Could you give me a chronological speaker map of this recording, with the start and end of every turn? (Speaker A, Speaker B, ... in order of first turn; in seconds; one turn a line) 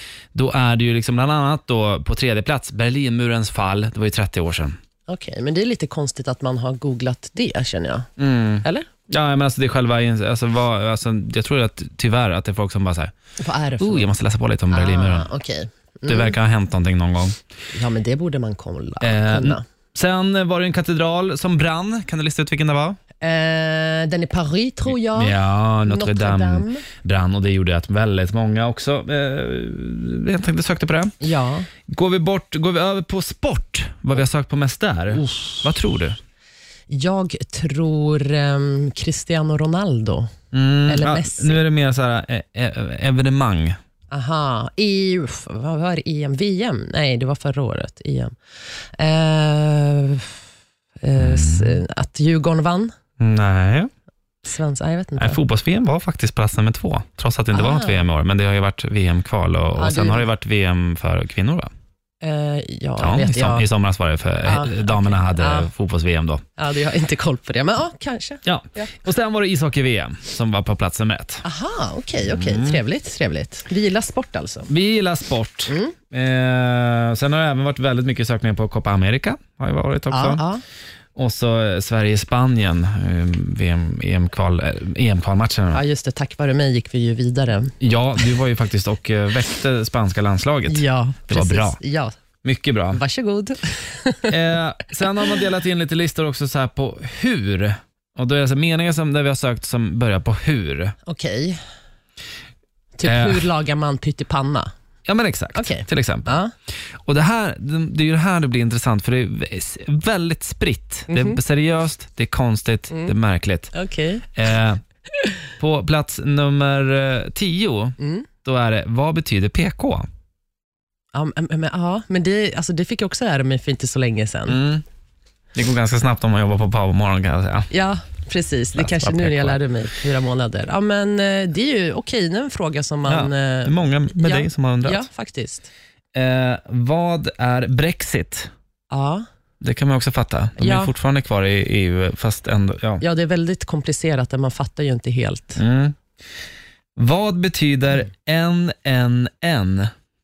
Speaker A: 0.3-4.8
Speaker B: 5.1-8.1
Speaker A: 8.2-13.1
Speaker B: 8.6-8.9
Speaker B: 13.4-14.1
Speaker A: 13.8-15.3
Speaker B: 14.7-16.4
Speaker A: 16.1-17.4
Speaker B: 17.7-19.6
Speaker A: 19.0-23.0
Speaker B: 23.2-26.9
Speaker A: 24.9-31.2
Speaker B: 31.2-31.7
Speaker A: 31.9-36.2
Speaker B: 35.2-35.5
Speaker B: 36.9-40.3
Speaker A: 40.5-43.8
Speaker B: 40.9-41.6
Speaker B: 44.1-50.4
Speaker B: 51.0-52.9
Speaker A: 51.2-51.8
Speaker A: 53.2-53.9
Speaker B: 54.4-55.4
Speaker A: 55.2-61.7
Speaker B: 57.5-58.0
Speaker B: 59.7-60.2
Speaker B: 62.2-63.7
Speaker A: 63.0-66.4
Speaker B: 64.4-65.7
Speaker B: 66.6-68.9
Speaker A: 68.4-71.4
Speaker B: 71.4-74.7
Speaker A: 72.2-72.8
Speaker A: 74.7-80.4
Speaker B: 75.7-76.0
Speaker B: 80.1-80.6
Speaker A: 81.2-85.8
Speaker B: 85.7-87.7
Speaker A: 87.8-91.8
Speaker B: 90.7-92.1
Speaker A: 92.4-93.0
Speaker B: 92.9-94.3
Speaker A: 94.3-100.9
Speaker B: 101.0-101.6
Speaker B: 103.0-104.7
Speaker A: 103.0-103.4
Speaker A: 105.0-106.3
Speaker B: 105.5-106.5
Speaker A: 107.0-113.7
Speaker B: 111.1-111.4
Speaker B: 113.7-114.3
Speaker A: 114.3-114.8
Speaker A: 115.6-120.1
Speaker B: 118.0-118.3
Speaker B: 121.1-124.6
Speaker A: 124.5-124.8
Speaker A: 125.5-127.7
Speaker B: 127.7-135.7
Speaker A: 128.7-129.6
Speaker A: 133.1-135.0
Speaker A: 136.1-138.5
Speaker B: 138.9-139.2
Speaker A: 139.6-143.0
Speaker B: 140.6-140.9
Speaker B: 143.0-145.6
Speaker A: 145.6-145.9
Speaker A: 147.0-149.9